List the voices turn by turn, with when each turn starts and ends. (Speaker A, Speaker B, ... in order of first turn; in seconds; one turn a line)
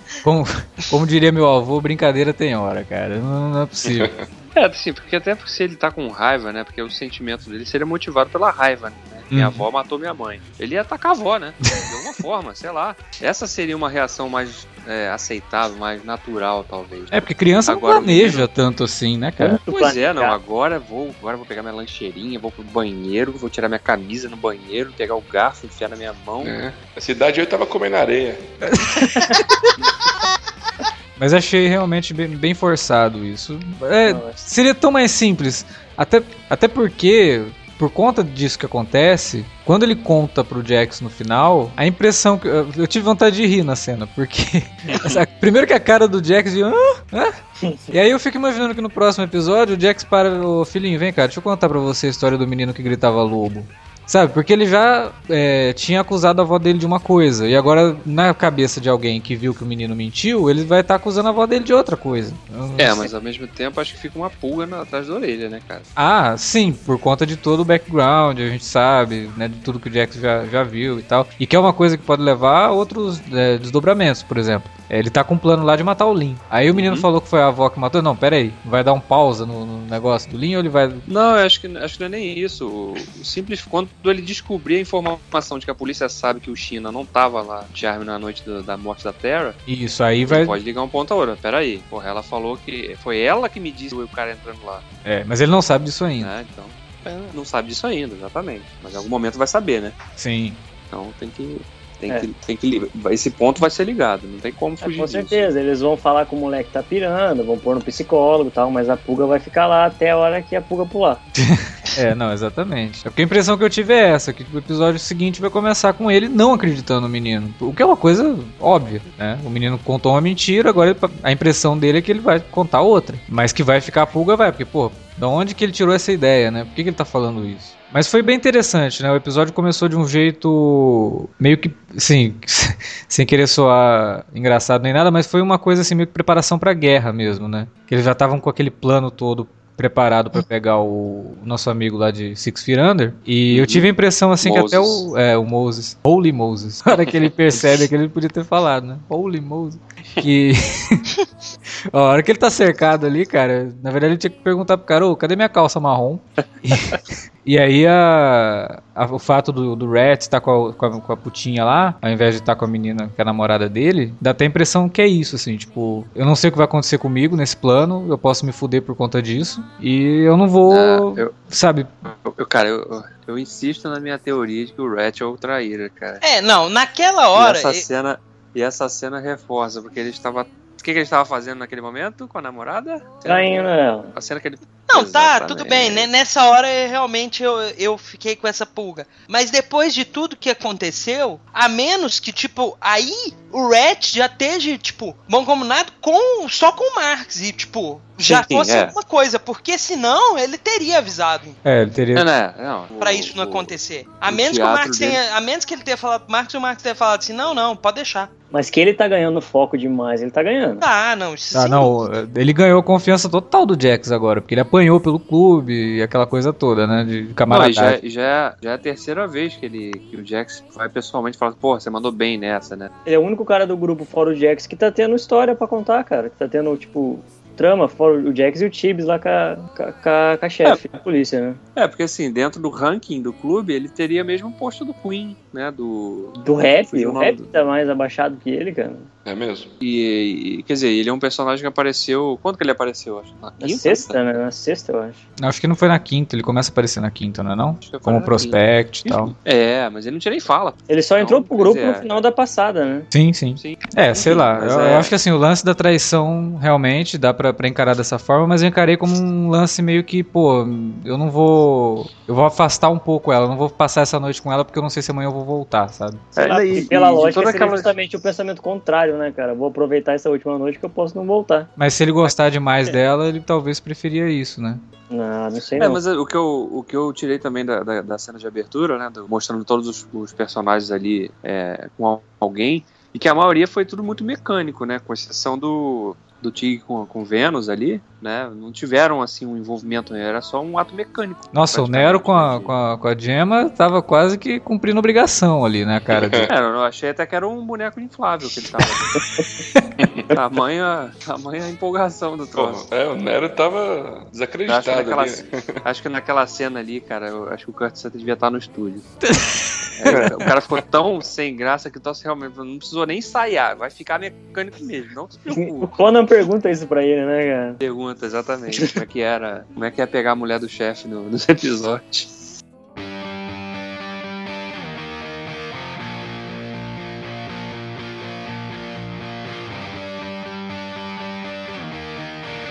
Speaker A: 0.2-4.1
Speaker B: 3.8-4.2
Speaker C: 4.5-18.5
Speaker A: 9.3-9.6
Speaker A: 17.1-19.6
Speaker D: 19.4-20.4
Speaker C: 19.7-26.5
Speaker B: 26.4-28.4
Speaker A: 28.8-29.7
Speaker A: 31.2-47.4
Speaker D: 34.1-34.4
Speaker B: 44.9-45.2
Speaker D: 47.6-48.0
Speaker A: 47.9-63.1
Speaker C: 62.8-65.9
Speaker A: 66.0-81.0
Speaker C: 76.7-77.1
Speaker C: 81.1-89.6
Speaker A: 89.7-90.6
Speaker C: 90.3-94.8
Speaker A: 95.0-96.3
Speaker C: 96.2-96.8
Speaker E: 97.0-97.3
Speaker C: 97.3-100.0
Speaker A: 100.2-100.6
Speaker C: 100.9-105.5
Speaker D: 104.8-111.2
Speaker A: 111.4-151.1
Speaker C: 143.5-143.9
Speaker C: 144.4-145.0
Speaker A: 151.9-171.9
Speaker C: 170.7-171.3
Speaker C: 172.1-176.2
Speaker E: 176.2-177.8
Speaker C: 177.4-186.1
Speaker D: 183.3-184.1
Speaker E: 184.9-201.6
Speaker C: 198.2-198.9
Speaker A: 201.7-202.3
Speaker C: 202.2-205.2
Speaker E: 203.0-208.3
Speaker D: 208.5-210.8
Speaker E: 210.8-212.1
Speaker A: 211.5-218.0
Speaker C: 217.5-222.9
Speaker D: 223.1-231.6
Speaker C: 231.8-237.5
Speaker D: 236.4-239.1
Speaker B: 239.2-239.7
Speaker C: 239.8-244.2
Speaker D: 243.6-245.2
Speaker A: 245.4-249.3
Speaker C: 247.8-252.1
Speaker D: 250.9-253.1
Speaker A: 253.1-266.3
Speaker C: 253.6-255.1
Speaker C: 266.4-267.9
Speaker D: 266.4-271.7
Speaker A: 271.8-274.8
Speaker D: 275.1-276.0
Speaker C: 275.8-292.7
Speaker A: 291.5-296.5
Speaker B: 296.1-296.5
Speaker C: 296.5-299.2
Speaker B: 300.0-300.4
Speaker C: 300.3-302.9
Speaker B: 302.6-305.8
Speaker C: 304.7-309.1
Speaker A: 309.3-310.3
Speaker C: 310.0-315.9
Speaker B: 310.1-310.4
Speaker D: 315.5-317.8
Speaker C: 317.8-322.3